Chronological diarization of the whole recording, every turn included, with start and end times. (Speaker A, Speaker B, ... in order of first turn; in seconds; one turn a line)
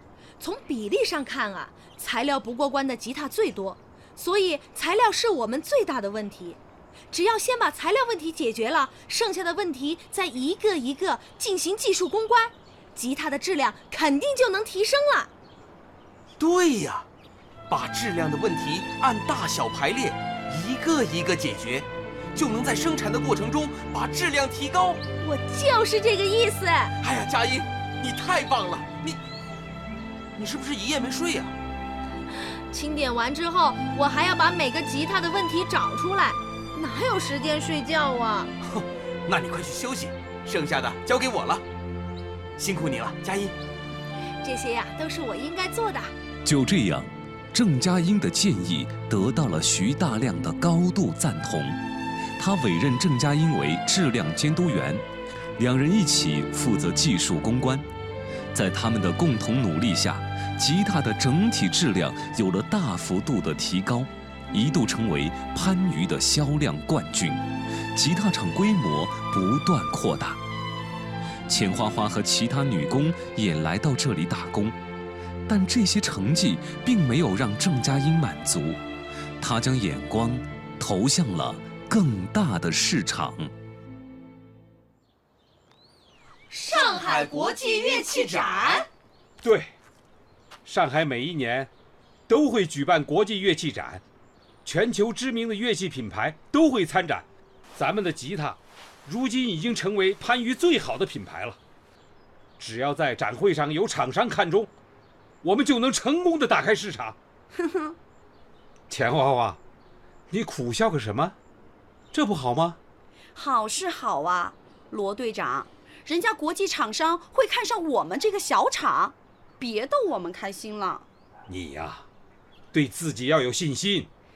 Speaker A: 0.4-6.6
Speaker A: 7.1-15.3
Speaker B: 16.4-17.1
Speaker B: 17.7-25.0
Speaker A: 25.2-26.9
Speaker B: 27.0-29.2
Speaker B: 30.4-31.5
Speaker A: 32.4-38.5
Speaker B: 38.6-41.6
Speaker B: 42.6-43.5
Speaker A: 44.4-46.1
Speaker C: 46.4-51.8
Speaker C: 52.4-55.0
Speaker C: 55.6-57.9
Speaker C: 58.5-70.4
Speaker C: 71.5-74.8
Speaker C: 75.5-78.8
Speaker C: 79.4-83.5
Speaker A: 86.5-88.8
Speaker B: 86.9-87.5
Speaker B: 88.1-88.8
Speaker D: 89.4-89.7
Speaker D: 90.6-91.7
Speaker D: 92.3-94.0
Speaker D: 94.6-101.6
Speaker D: 102.6-104.7
Speaker D: 105.4-107.2
Speaker E: 107.5-108.0
Speaker D: 108.9-109.6
Speaker D: 110.3-111.3
Speaker D: 112.1-112.8
Speaker E: 113.3-121.0
Speaker D: 121.5-122.0
Speaker D: 122.7-124.1